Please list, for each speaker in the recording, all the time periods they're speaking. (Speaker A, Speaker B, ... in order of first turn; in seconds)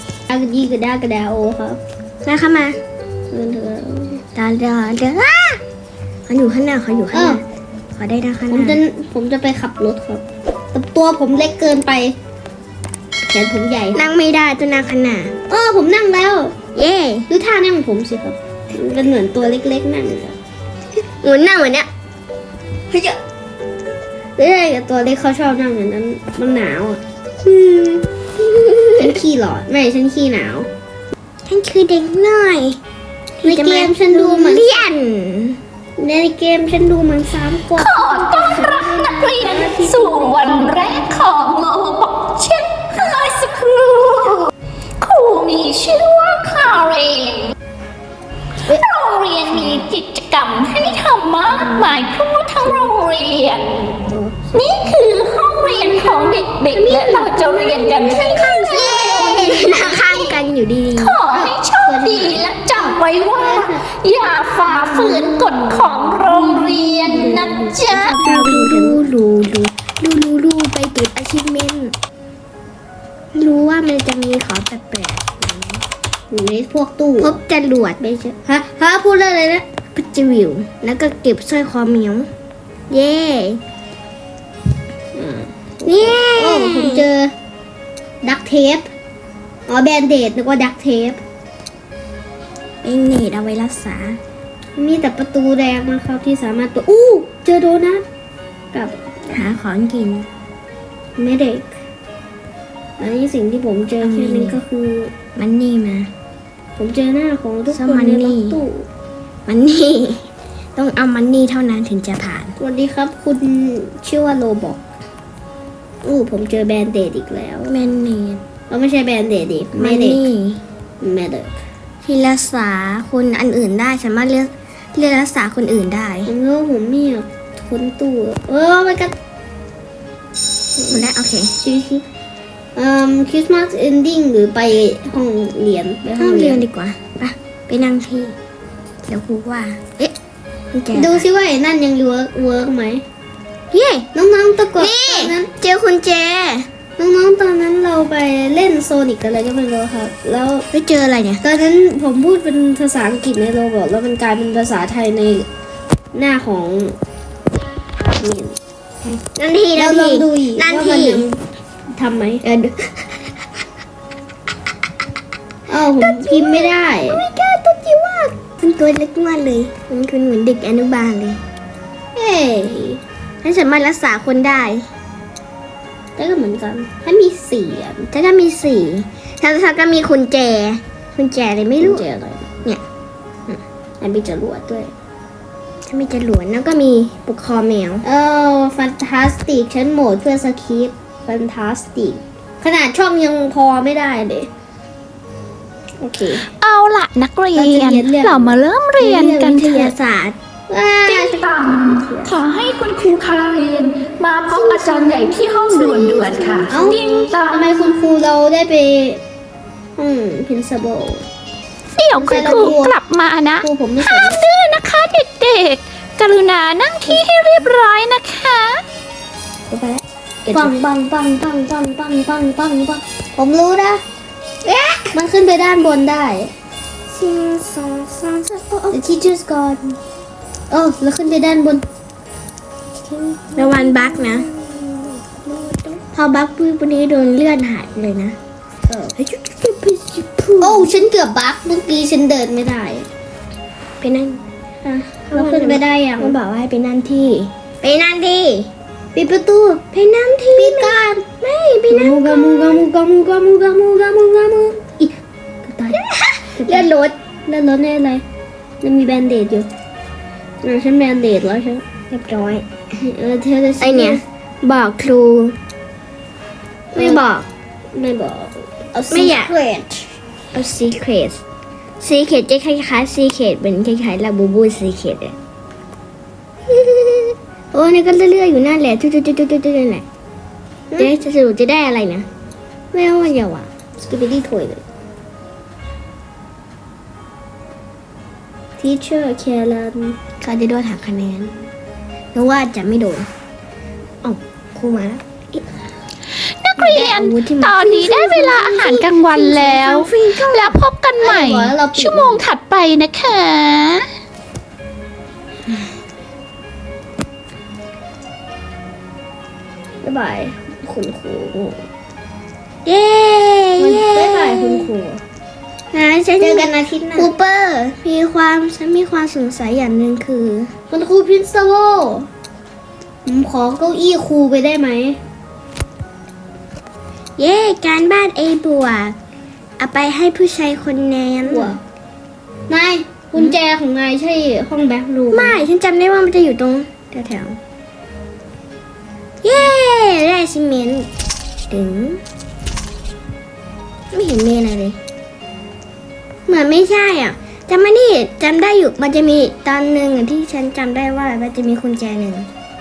Speaker A: 0.3-1.8, 3.3-4.2, 7.1-7.4, 8.5-10.2, 10.7-12.2, 13.3-14.0, 15.5-16.6, 17.3-20.4, 24.4-27.0, 29.0-30.7, 33.4-34.8, 36.0-41.0, 51.6-51.9, 52.6-52.9, 53.6-54.8, 55.6-60.0, 61.2-63.9, 64.7-65.6, 67.0-69.0, 76.3-77.4, 78.0-79.6, 85.1-87.3, 88.2-88.9, 89.7-91.2, 94.8-98.0, 98.7-99.4, 101.2-101.8, 103.0-105.1, 106.8-108.9, 112.6-114.8, 116.0-117.7, 118.7-120.2, 121.0-121.5, 126.3-129.2, 130.8-131.1, 131.6-132.1, 132.8-136.6, 140.9-143.0, 144.1-145.5, 147.0-150.7, 151.4-155.5, 156.1-157.0, 158.1-158.6, 159.8-161.4, 161.9-162.4, 165.7-167.2, 172.2-173.0, 176.2-178.1, 181.8-182.5, 184.0-184.9, 188.0-194.5, 196.0-196.5, 197.5-199.9, 200.7-202.4, 204.5-209.2, 210.0-211.3, 212.1-213.0, 213.6-214.4, 220.5-224.0, 225.1-226.5, 228.9-230.0, 230.7-231.8, 233.1-236.0, 238.8-239.1, 240.6-243.1, 244.8-246.4, 249.2-249.8, 250.5-251.2, 251.9-255.1, 255.7-256.0, 256.5-256.9, 257.5-258.2, 258.8-259.7, 260.6-261.8, 263.0-264.2, 266.9-267.2, 267.9-270.1, 284.0-284.8, 288.8-290.2, 301.2-302.4, 310.0-311.8, 313.8-315.2, 316.4-317.4, 320.9-322.3, 323.2-325.2, 331.4-331.8, 332.7-335.6
Speaker B: 2.2-2.8, 4.3-5.6, 6.3-8.8, 13.9-15.3, 16.7-17.3, 21.2-21.9, 27.4-29.2, 31.5-32.8, 33.4-35.6, 58.7-61.2, 67.8-71.9, 73.3-75.8, 77.2-78.0, 79.9-82.3, 82.9-83.6, 85.8-87.0, 92.8-94.2, 99.3-100.3, 104.0-104.6, 105.4-106.1, 107.7-108.6, 109.5-112.5, 117.7-118.4, 119.8-120.6, 122.0-126.3, 130.9-131.5, 136.2-138.4, 139.0-140.1, 140.7-141.2, 143.7-144.1, 144.8-146.7, 150.7-151.4, 159.1-161.3, 162.4-163.3, 166.0-171.4, 173.4-174.9, 178.1-182.0, 185.9-188.1, 199.6-200.4, 219.7-220.8, 224.7-225.1, 227.1-229.0, 233.6-234.5, 236.0-238.4, 239.2-240.9, 244.0-244.4, 245.3-248.7, 249.9-252.8, 255.9-257.1, 262.1-262.6, 263.8-265.6, 266.9-267.5, 269.1-269.5, 270.5-271.4, 272.0-275.4, 276.7-280.0, 281.0-282.2, 282.9-283.7, 290.4-291.7, 292.3-293.3, 294.2-295.6, 296.8-300.8, 312.8-314.9, 315.9-320.7, 327.4-329.1, 329.8-331.8, 335.3-337.6, 339.4-341.1, 341.7-342.2, 344.1-345.0, 346.5-352.5
Speaker C: 37.7-44.4, 45.0-47.5, 48.7-53.7, 54.5-60.2, 61.0-68.1, 196.4-199.9, 201.1-208.0, 212.0-218.8, 296.4-304.1